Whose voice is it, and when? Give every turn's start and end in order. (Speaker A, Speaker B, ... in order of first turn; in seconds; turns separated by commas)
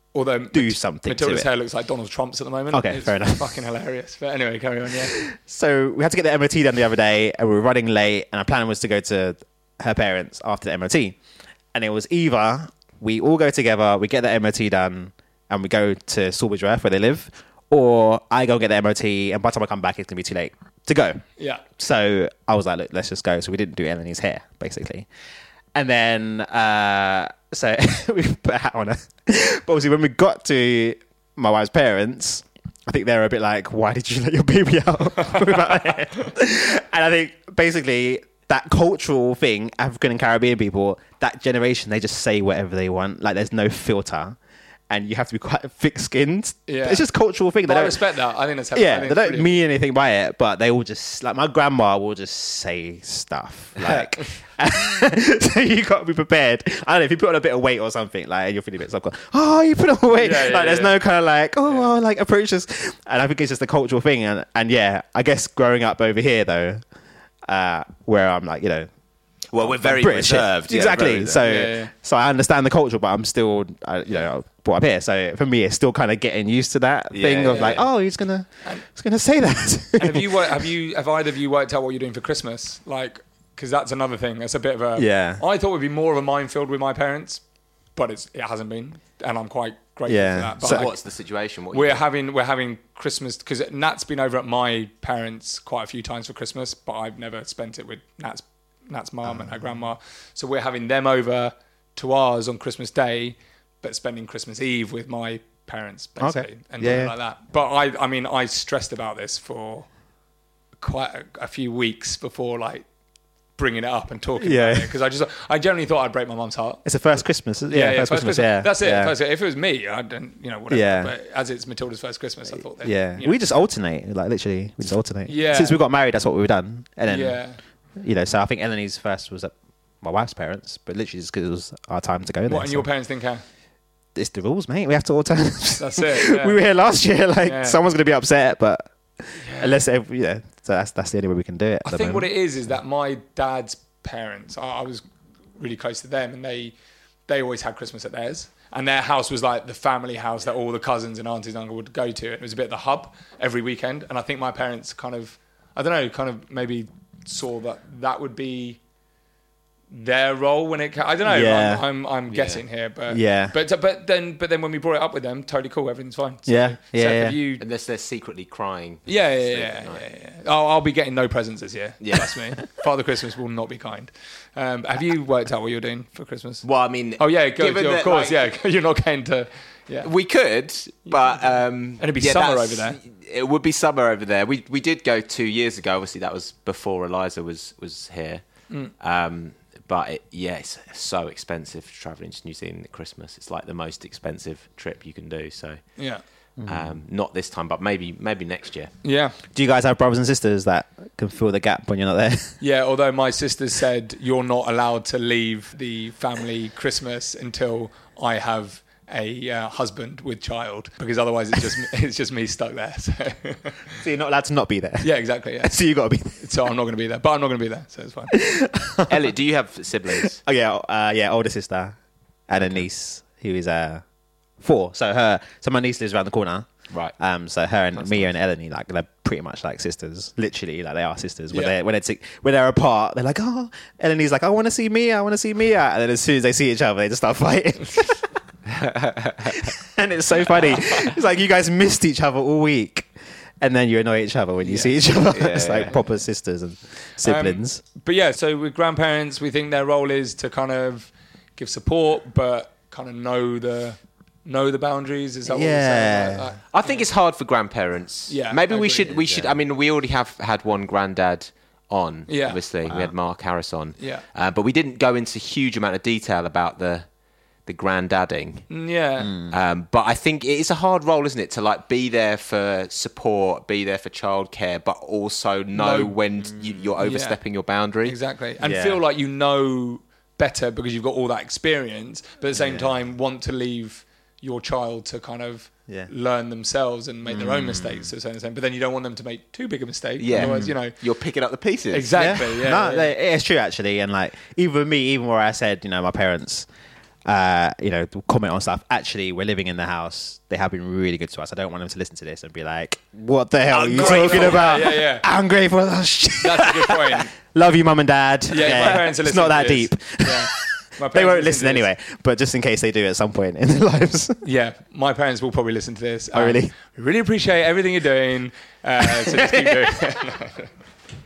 Speaker A: 0.1-5.2, Speaker B: 0.5-1.5, Speaker B: 2.7-3.6, Speaker B: 5.1-11.2, Speaker B: 11.7-21.2, Speaker A: 21.4-21.6, Speaker B: 21.8-25.1, Speaker B: 25.7-44.4, Speaker B: 44.9-48.0, Speaker A: 46.7-47.0, Speaker A: 47.6-49.5, Speaker B: 48.7-66.8, Speaker A: 60.2-60.9, Speaker B: 67.5-68.9, Speaker C: 69.5-71.4, Speaker B: 69.6-80.7, Speaker A: 71.4-71.9, Speaker C: 77.1-77.8, Speaker A: 80.0-87.4, Speaker B: 85.0-85.4, Speaker A: 87.9-91.0, Speaker B: 90.1-90.9, Speaker C: 90.6-92.0, Speaker A: 91.7-109.9, Speaker B: 99.2-99.7, Speaker B: 106.2-107.1, Speaker A: 110.8-112.8, Speaker A: 113.6-116.8, Speaker B: 114.4-114.9, Speaker B: 116.8-119.1, Speaker A: 117.7-123.4, Speaker B: 120.7-121.1, Speaker B: 122.8-127.4, Speaker A: 125.2-125.8, Speaker A: 127.1-127.6, Speaker B: 128.0-132.9, Speaker A: 132.5-133.4, Speaker B: 134.1-142.3, Speaker A: 135.8-136.6, Speaker A: 137.4-137.8, Speaker A: 139.4-139.8, Speaker A: 141.8-145.0, Speaker A: 145.6-146.7, Speaker A: 147.3-158.8, Speaker A: 159.9-167.6, Speaker B: 161.2-161.8, Speaker C: 162.3-162.6, Speaker B: 163.1-163.6, Speaker B: 166.4-167.4, Speaker C: 167.6-170.0, Speaker A: 169.1-176.6, Speaker C: 172.0-172.4, Speaker C: 176.6-178.5, Speaker A: 177.2-180.1, Speaker C: 180.0-188.4, Speaker A: 181.1-181.4, Speaker A: 182.0-183.0, Speaker C: 189.0-195.8, Speaker A: 196.0-196.2, Speaker B: 196.6-197.0, Speaker C: 196.7-198.9, Speaker A: 199.0-199.4, Speaker B: 199.5-202.6, Speaker A: 202.6-213.8, Speaker B: 214.0-216.5, Speaker A: 215.0-215.8, Speaker A: 216.3-218.3, Speaker B: 218.3-219.2, Speaker C: 219.1-220.4, Speaker B: 220.1-222.0, Speaker B: 222.5-224.0, Speaker B: 224.6-238.3, Speaker C: 227.9-228.3, Speaker C: 238.7-239.6, Speaker B: 239.4-243.1, Speaker B: 243.6-247.8, Speaker A: 244.6-245.0, Speaker C: 245.3-245.9, Speaker A: 247.2-257.1, Speaker B: 255.4-256.5, Speaker C: 256.7-267.1, Speaker A: 258.3-259.2, Speaker B: 259.1-259.5, Speaker A: 262.3-262.6, Speaker B: 262.9-263.1, Speaker A: 264.0-264.2, Speaker C: 267.6-268.7, Speaker A: 268.7-269.4, Speaker B: 269.2-269.5, Speaker C: 269.5-278.1, Speaker A: 275.7-276.1, Speaker B: 276.5-276.9, Speaker A: 277.0-277.4, Speaker A: 278.0-291.0, Speaker B: 278.6-279.0, Speaker B: 282.5-283.0, Speaker B: 287.3-288.1, Speaker C: 290.2-292.3, Speaker B: 290.3-290.8, Speaker A: 291.9-293.1, Speaker B: 292.1-296.7, Speaker B: 297.2-314.4, Speaker A: 303.7-305.2, Speaker C: 303.8-304.7, Speaker A: 306.4-307.3, Speaker A: 308.5-311.9, Speaker A: 314.4-320.7, Speaker B: 316.3-316.7, Speaker B: 319.0-319.8